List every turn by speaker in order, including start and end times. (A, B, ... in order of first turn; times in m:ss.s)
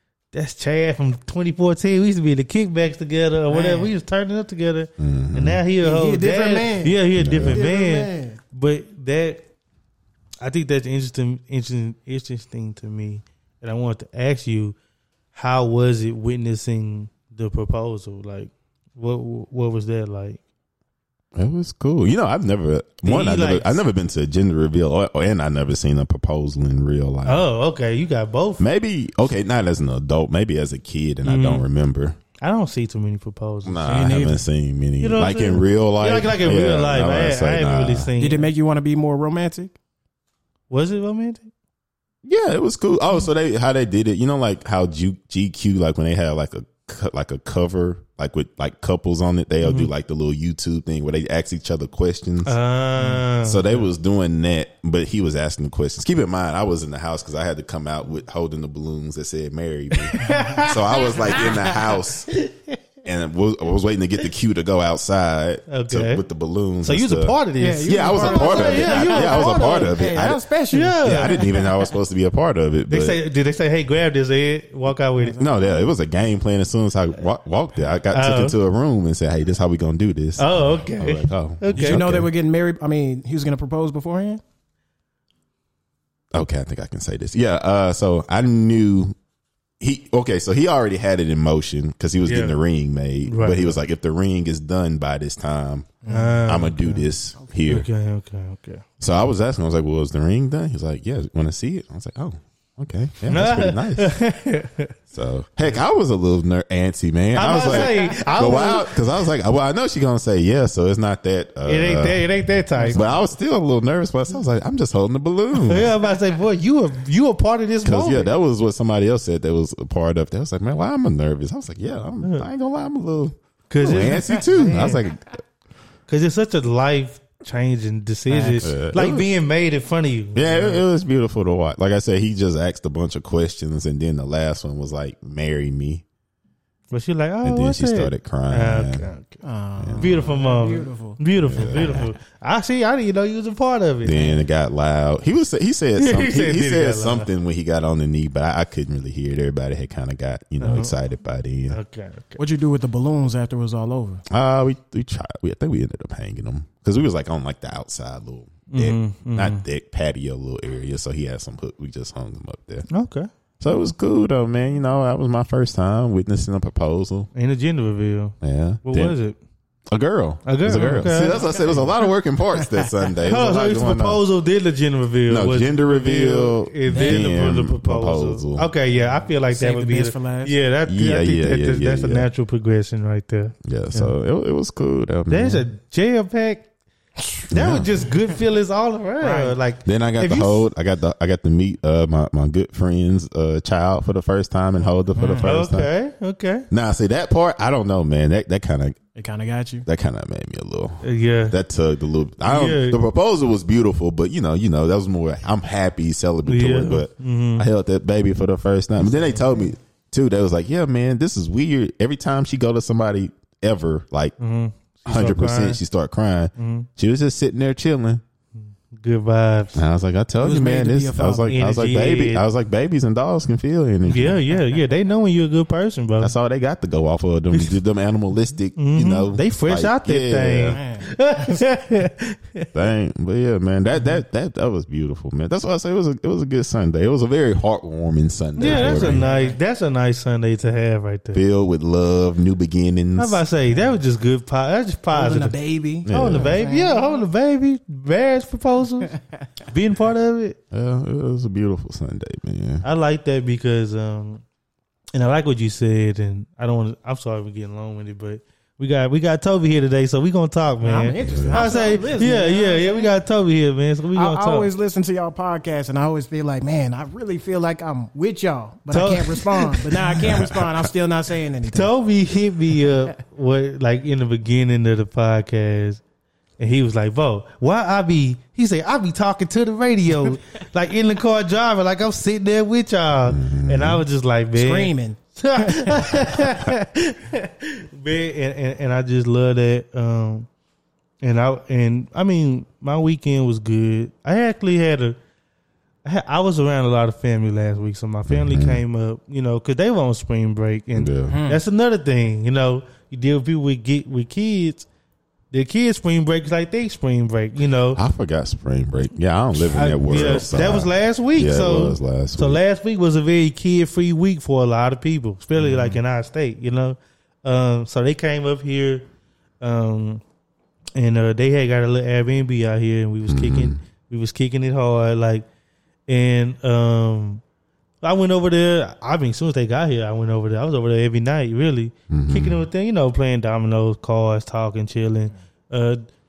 0:00.3-0:09.4 A
0:03.5-0:03.9 B
0:05.0-0:05.6 C
0:05.8-0:08.4 B
0:07.1-0:07.6 C
0:10.4-0:14.8 A
0:15.3-0:20.4 A
0:21.3-0:27.5 C
0:23.0-0:23.8 A
0:27.2-0:28.6 A
0:28.6-0:32.2 C
0:31.2-0:31.6 A
0:32.4-0:33.8 A
0:33.6-0:38.1 C
0:33.8-0:34.4 B
0:35.0-0:38.5 A
0:38.2-0:39.7 B
0:40.7-0:41.5 A
0:42.2-0:52.6 C
0:49.6-0:49.9 A
0:52.4-0:53.8 A
0:53.4-1:02.3 C
1:00.1-1:01.5 A
1:00.2-1:00.6 B
1:01.3-1:01.8 B
1:02.3-1:02.8 A
1:03.0-1:10.4 C
1:05.7-1:06.2 A
1:06.8-1:10.0 A
1:07.6-1:11.8 B
1:10.7-1:11.4 A
1:11.0-1:13.2 C
1:12.9-1:15.4 A
1:15.2-1:15.7 B
1:15.4-1:22.3 C
1:18.1-1:18.6 A
1:20.4-1:22.0 A
1:21.7-1:24.4 B
1:26.3-1:29.2 C
1:29.8-1:37.9 C
1:32.2-1:32.6 A
1:33.2-1:33.7 A
1:36.0-1:37.6 B
1:36.1-1:37.0 A
1:37.6-1:38.8 A
1:39.0-1:44.2 C
1:43.3-1:44.9 A
1:45.1-1:52.3 C
1:47.3-1:48.9 A
1:47.4-1:48.1 B
1:51.6-1:53.0 A
1:52.8-1:53.1 B
1:52.9-1:55.9 C
1:55.5-1:58.3 A
1:57.8-2:05.4 C
2:02.2-2:02.4 A
2:03.7-2:05.0 A
2:04.4-2:05.1 B
2:06.1-2:10.8 A
2:08.3-2:08.7 B
2:08.6-2:09.2 C
2:10.3-2:16.0 C
2:16.9-2:19.4 A
2:17.4-2:19.0 C
2:19.4-2:22.1 B
2:19.8-2:20.4 C
2:20.0-2:24.2 A
2:21.4-2:22.1 C
2:24.0-2:31.8 C
2:26.0-2:27.3 A
2:30.6-2:30.9 A
2:31.7-2:32.4 A
2:32.4-2:34.2 B
2:34.3-2:42.8 C
2:38.7-2:39.6 A
2:42.9-2:43.3 A
2:43.6-2:47.3 C
2:47.3-2:49.4 A
2:48.4-2:49.1 C
2:49.9-2:54.2 C
2:50.4-2:51.4 A
2:50.7-2:52.0 B
2:52.5-2:52.9 B
2:53.3-3:04.1 A
2:55.3-2:58.7 C
2:56.9-2:57.6 B
2:59.5-3:00.5 B
3:00.8-3:02.3 C
3:03.6-3:05.6 C
3:05.3-3:06.7 A
3:07.2-3:07.4 B
3:07.5-3:10.6 A
3:07.5-3:07.9 C
3:09.2-3:09.6 B
3:09.8-3:15.9 C
3:15.1-3:15.5 B
3:15.4-3:16.7 A
3:16.7-3:19.0 C
3:19.2-3:19.8 B
3:19.8-3:34.4 C
3:21.0-3:21.6 A
3:22.4-3:23.0 A
3:26.4-3:27.7 A
3:34.4-3:35.8 A
3:35.0-3:38.2 C
3:36.6-3:36.9 A
3:38.9-3:39.8 A
3:39.7-3:44.4 C
3:40.4-3:41.5 B
3:41.5-3:42.4 A
3:44.1-3:46.3 A
3:46.2-3:50.8 C
3:48.8-3:52.7 A
3:50.7-3:51.6 B
3:52.7-3:59.3 C
3:58.6-4:01.4 A
3:58.6-3:59.6 B
4:01.3-4:03.4 C
4:03.2-4:05.6 A
4:05.1-4:07.2 B
4:06.1-4:06.6 C
4:06.1-4:09.1 A
4:09.6-4:10.6 A
4:10.7-4:12.8 C
4:12.8-4:14.4 A
4:15.1-4:24.7 A
4:20.8-4:23.1 B
4:21.2-4:21.8 C
4:24.1-4:31.9 B
4:28.9-4:30.2 A
4:30.2-4:30.8 C
4:31.7-4:36.0 A
4:36.6-4:50.5 A
4:43.3-4:44.0 C
4:44.5-4:46.2 B
4:51.2-4:55.2 A
4:56.0-5:04.8 A
4:58.3-4:58.8 C
5:00.9-5:01.4 C
5:01.3-5:01.6 B
5:05.5-5:08.0 A
5:07.9-5:12.6 C
5:09.6-5:19.0 A
5:15.6-5:16.0 B
5:19.6-5:20.2 A
5:21.0-5:25.4 A
5:23.3-5:23.8 C
5:26.1-5:27.4 A
5:28.0-5:36.0 A
5:32.1-5:32.6 C